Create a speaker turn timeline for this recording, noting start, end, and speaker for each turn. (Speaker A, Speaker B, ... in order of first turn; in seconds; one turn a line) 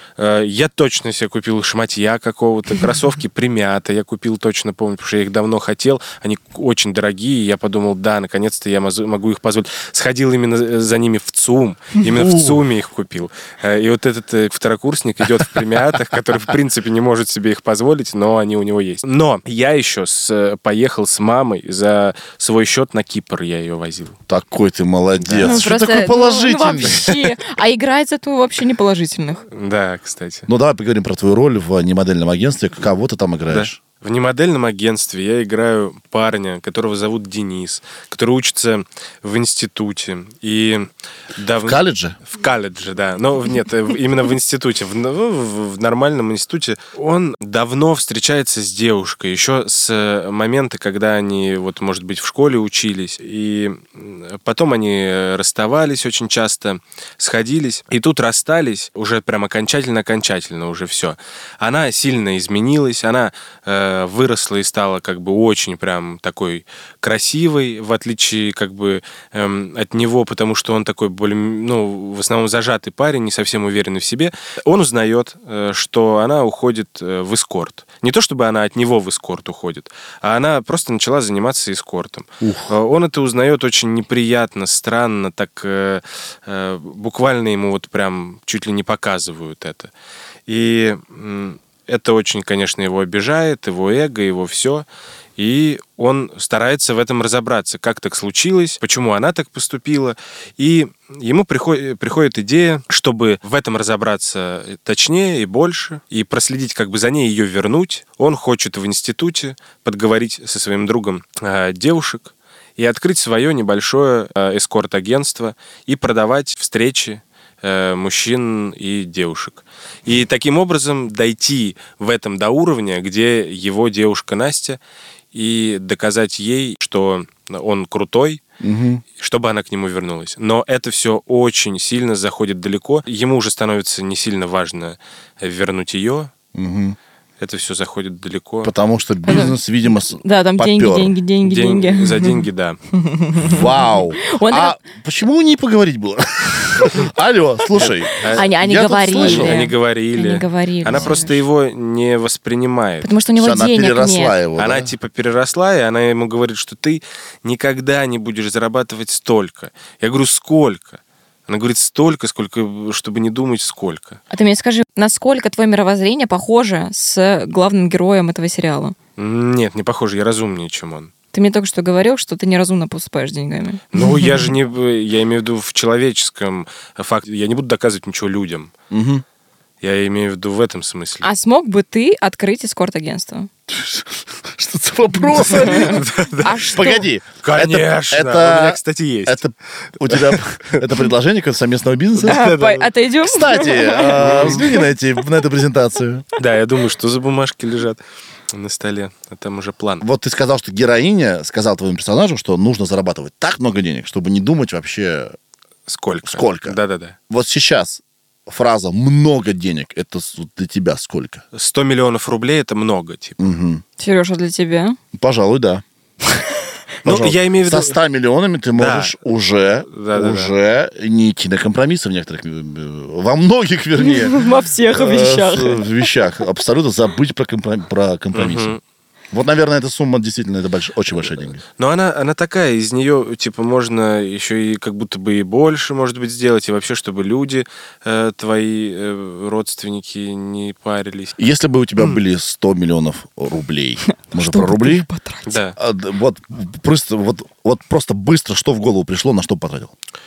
Speaker A: 0.2-24.2
Speaker B: 12.1-12.6
Speaker B: 24.3-27.1
Speaker A: 25.2-25.7
Speaker C: 25.4-29.5
Speaker A: 26.9-27.3
Speaker A: 29.5-30.5
Speaker B: 30.5-33.8
Speaker A: 33.5-89.9
Speaker B: 41.6-42.2
Speaker B: 82.4-82.7
Speaker A: 90.5-94.9
Speaker A: 95.4-124.8
Speaker A: 125.3-128.4
Speaker B: 128.6-129.0
Speaker A: 129.2-136.3
Speaker B: 136.5-137.0
Speaker A: 137.4-138.7
Speaker B: 138.6-141.2
Speaker C: 139.2-139.6
Speaker C: 140.1-142.4
Speaker A: 141.4-142.8
Speaker C: 142.9-144.8
Speaker B: 143.4-149.6
Speaker A: 147.8-148.5
Speaker C: 148.3-151.4
Speaker A: 149.2-153.1
Speaker C: 153.0-154.4
Speaker B: 153.4-154.9
Speaker A: 154.6-164.2
Speaker C: 164.3-169.0
Speaker A: 169.2-171.1
Speaker C: 171.3-173.8
Speaker A: 173.9-178.7
Speaker B: 178.9-179.2
Speaker A: 179.8-181.3
Speaker C: 181.2-183.5
Speaker B: 183.7-186.1
Speaker A: 185.6-186.8
Speaker C: 185.6-187.1
Speaker B: 186.8-192.5
Speaker A: 187.4-189.4
Speaker A: 190.0-190.9
Speaker A: 192.2-192.9
Speaker C: 192.2-194.9
Speaker B: 193.2-196.3
Speaker A: 194.2-194.6
Speaker A: 196.4-200.1
Speaker B: 200.0-205.4
Speaker A: 205.9-207.2
Speaker B: 206.3-206.8
Speaker B: 207.3-211.4
Speaker A: 211.5-213.4
Speaker B: 213.4-213.8
Speaker C: 214.0-215.0
Speaker B: 215.1-215.8
Speaker A: 217.1-218.0
Speaker B: 217.1-224.4
Speaker A: 218.8-219.2
Speaker A: 219.9-220.5
Speaker C: 224.0-225.9
Speaker B: 224.9-228.8
Speaker A: 228.3-228.8
Speaker B: 229.3-231.6
Speaker A: 231.8-241.4
Speaker B: 241.4-245.1
Speaker C: 244.1-245.6
Speaker A: 245.5-245.8
Speaker B: 245.8-249.9